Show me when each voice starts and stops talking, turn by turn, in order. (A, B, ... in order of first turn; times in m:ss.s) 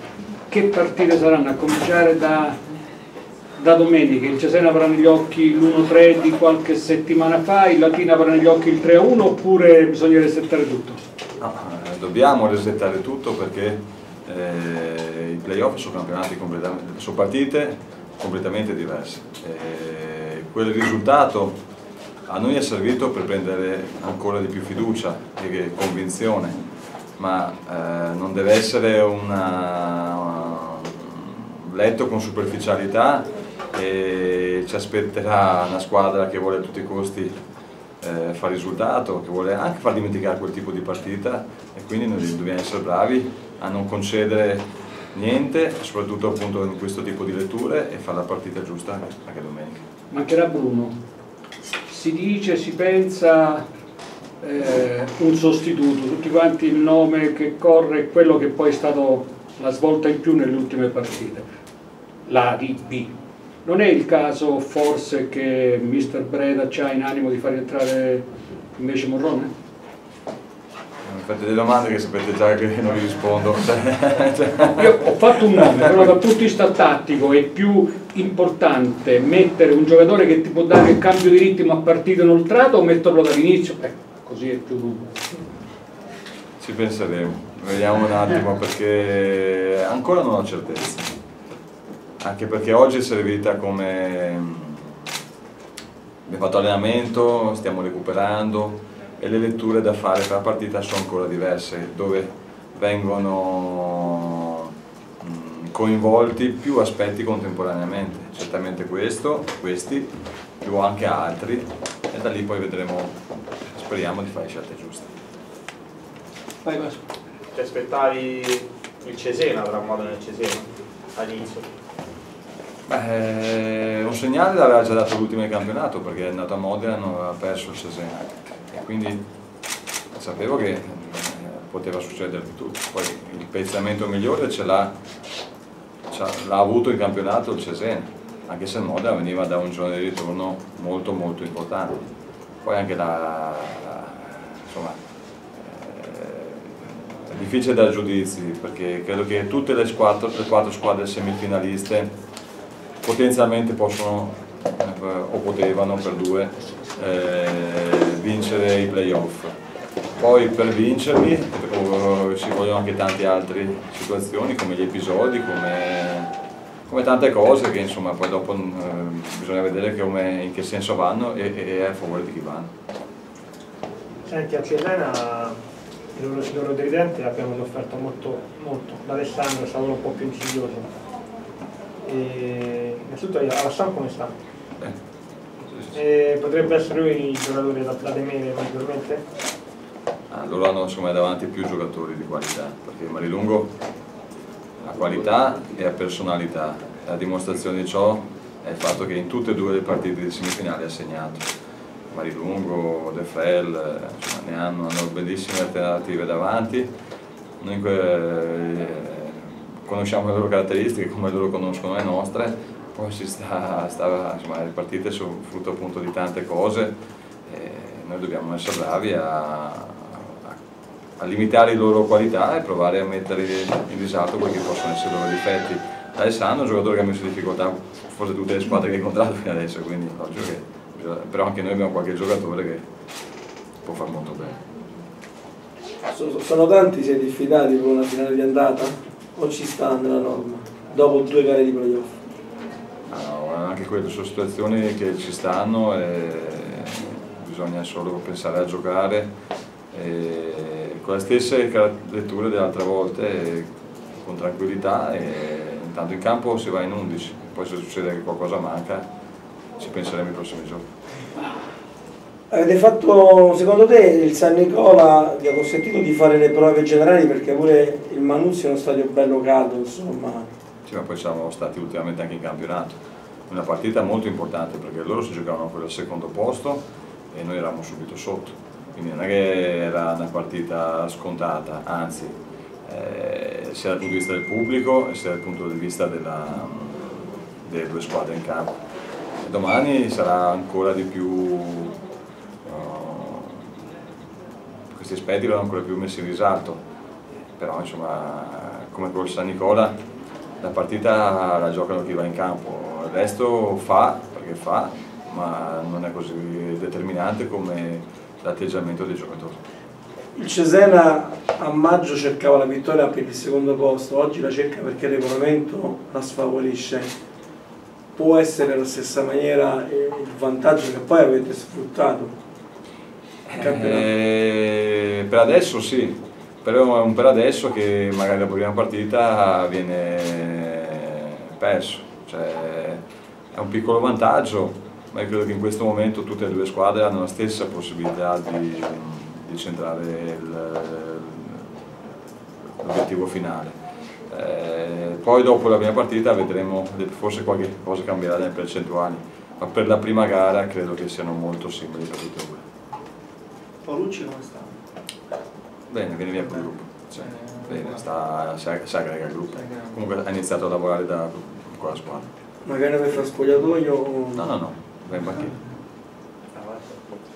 0:00.5-0:02.6 A
0:03.6-0:11.0 A
0:11.4-0:21.5 B
0:22.3-0:26.6 B
0:27.2-0:37.3 B
0:38.0-0:49.8 B
0:50.1-0:51.0 A
0:51.8-0:53.6 A
0:54.4-1:01.4 A
1:02.2-1:03.1 A
1:03.6-1:09.5 A
1:11.0-1:15.0 B
1:14.7-1:25.0 A
1:26.6-1:31.1 B
1:32.2-1:35.0 B
1:36.2-1:50.1 B
1:50.6-1:55.1 B
1:56.6-1:57.0 C
1:57.5-2:01.7 D
2:02.9-2:09.2 B
2:10.1-2:14.9 B
2:16.1-2:22.0 B
2:22.6-2:25.0 B
2:25.6-2:32.1 B
2:33.0-2:39.5 B
2:40.2-2:46.3 B
2:46.9-2:52.7 B
2:54.3-2:55.5 E
2:56.2-3:00.9 E
3:02.0-3:04.3 E
3:05.7-3:06.0 B
3:06.0-3:09.2 E
3:10.3-3:13.7 B
3:14.8-3:21.4 B
3:22.1-3:26.9 B
3:27.6-3:36.9 B
3:37.5-3:40.6 B
3:41.2-3:52.8 B
3:53.8-3:54.6 B
3:56.1-4:02.2 C
4:03.1-4:09.3 B
4:09.9-4:19.1 B
4:19.8-4:20.8 B
4:22.5-4:30.5 C
4:30.8-4:42.3 B
4:42.9-4:47.1 B
4:47.6-4:48.8 B
4:49.4-4:52.0 B
4:52.6-4:53.6 B
4:54.9-4:56.8 B
4:57.6-4:59.9 B
5:00.6-5:09.6 B
5:10.3-5:17.1 C
5:18.2-5:22.3 C
5:23.5-5:33.0 B
5:23.6-5:24.0 C
5:33.5-5:41.6 B
5:42.8-5:43.7 B
5:44.3-5:52.6 B
5:53.8-5:54.7 F
5:55.9-6:02.3 B
5:57.2-5:58.0 F
5:59.7-6:00.0 F
6:02.6-6:04.5 C
6:04.3-6:05.6 B
6:06.6-6:07.1 D